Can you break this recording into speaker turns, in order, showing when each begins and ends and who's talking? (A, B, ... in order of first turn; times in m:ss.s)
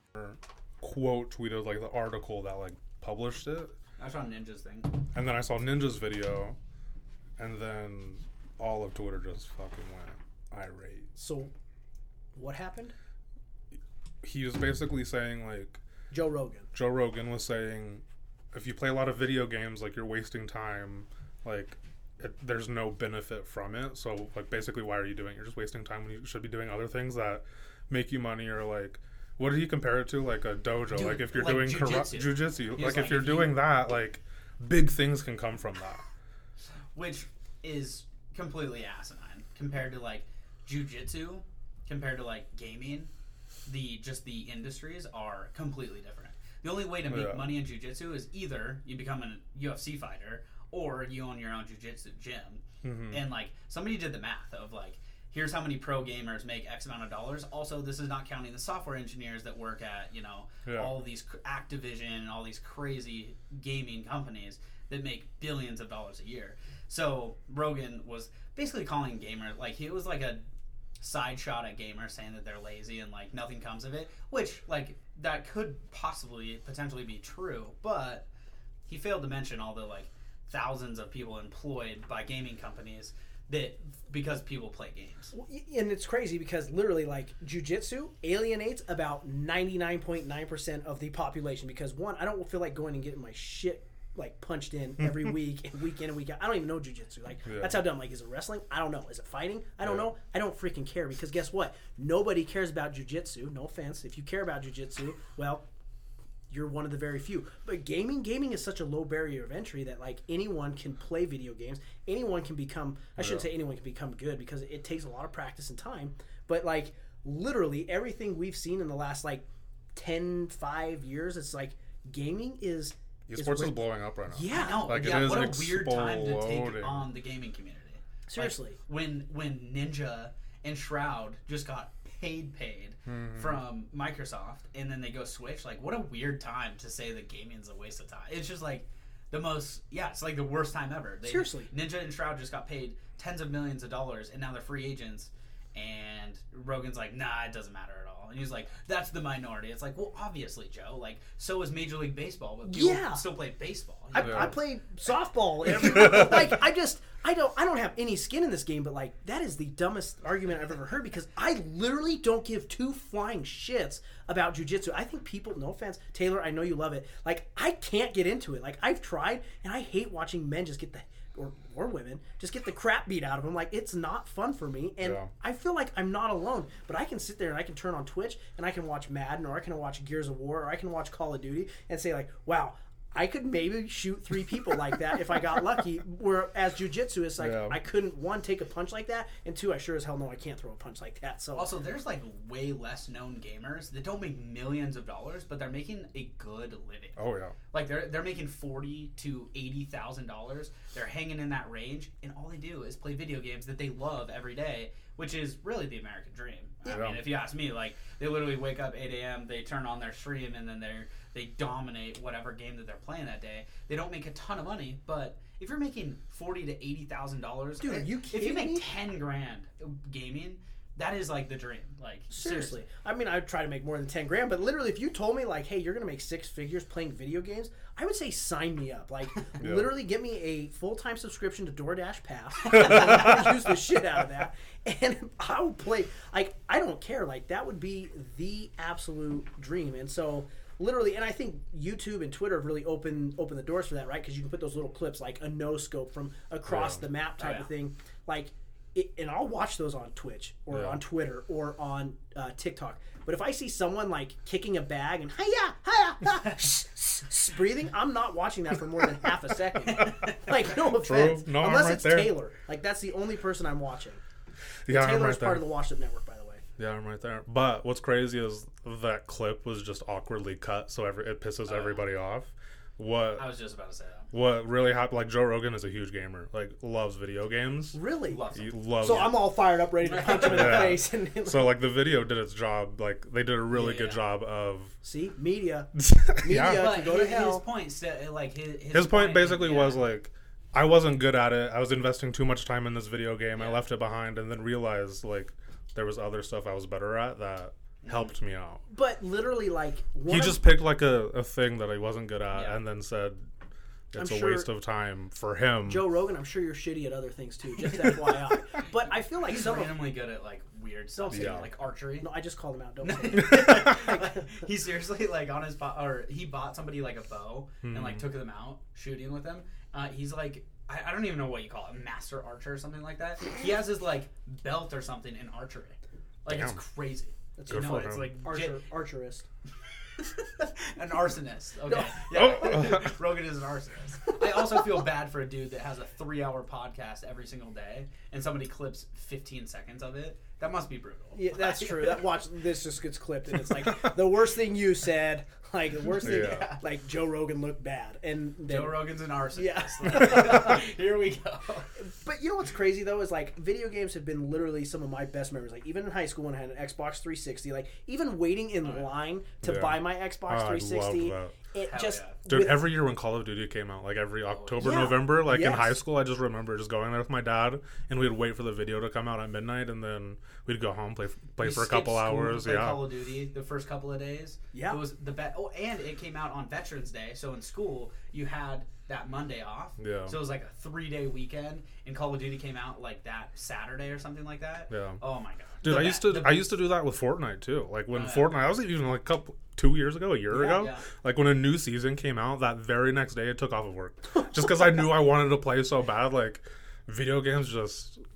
0:00.1-0:03.7 A
0:04.0-0:04.9 B
0:05.1-0:06.6 A
0:07.4-0:11.1 A
0:11.2-0:11.5 C
0:12.3-0:12.9 C
0:14.2-0:15.8 A
0:16.1-0:16.7 C
0:16.7-0:36.0 A
0:30.9-0:33.6 B
0:36.9-0:43.1 B
0:43.6-1:10.4 B
0:47.0-0:47.5 A
0:52.8-0:53.2 A
1:00.6-1:00.9 A
1:11.0-1:18.2 B
1:18.9-1:25.3 B
1:25.3-1:45.6 C
1:35.0-1:35.3 A
1:37.5-1:37.8 A
1:39.8-1:40.1 A
1:46.5-2:05.1 C
1:53.2-1:53.4 A
2:03.3-2:07.1 A
2:04.5-2:34.6 B
2:08.3-2:08.8 C
2:13.1-2:13.6 A
2:21.2-2:21.7 C
2:32.6-2:33.2 C
2:34.1-3:11.7 C
2:34.2-2:34.5 A
2:35.9-2:36.4 A
2:55.0-2:55.3 A
3:07.4-3:07.8 A
3:11.5-3:17.2 B
3:17.2-3:17.5 A
3:17.7-3:42.8 B
3:26.9-3:27.3 A
3:37.8-3:38.9 C
3:42.3-4:24.2 C
3:49.6-3:49.9 A
3:52.8-3:53.2 B
4:06.7-4:07.0 A
4:07.4-4:07.7 B
4:10.7-4:11.0 A
4:19.9-4:20.4 B
4:20.6-4:22.4 A
4:24.8-4:25.7 A
4:24.9-4:26.6 C
4:26.8-4:33.5 A
4:31.6-4:32.0 B
4:33.4-4:34.3 B
4:34.3-4:38.0 A
4:37.9-4:38.4 C
4:38.3-4:39.4 B
4:38.5-4:39.5 A
4:39.0-4:41.8 C
4:40.0-4:41.0 B
4:40.3-4:44.9 A
4:43.7-4:44.2 B
4:45.0-4:47.6 C
4:46.0-4:46.9 A
4:46.5-4:50.0 B
4:48.9-4:58.8 A
4:53.5-4:53.8 B
4:58.0-4:58.3 B
4:58.9-5:00.6 C
5:00.3-5:03.4 A
5:02.5-5:02.8 B
5:04.1-5:06.0 A
5:04.1-5:04.7 C
5:05.8-5:10.0 C
5:09.3-5:12.3 B
5:11.2-5:14.5 C
5:11.3-5:11.7 A
5:13.0-5:28.8 B
5:13.5-5:14.0 A
5:17.8-5:18.3 A
5:26.5-5:26.8 A
5:27.6-5:29.4 C
5:27.7-5:28.3 A
5:30.2-5:42.2 B
5:31.9-5:32.2 C
5:32.3-5:33.1 A
5:41.3-5:50.8 C
5:43.8-5:44.1 A
5:46.1-5:46.8 B
5:46.2-5:46.7 A
5:48.7-5:51.9 B
5:52.0-6:02.9 C
5:58.8-5:59.2 B
5:59.6-6:01.5 A
6:01.9-6:02.4 B
6:02.4-6:13.0 A
6:04.5-6:05.1 B
6:04.8-6:06.0 C
6:11.6-6:26.7 B
6:14.7-6:15.0 C
6:20.0-6:20.4 A
6:24.9-6:25.2 A
6:25.8-6:38.2 A
6:28.1-6:28.6 B
6:30.5-6:31.0 B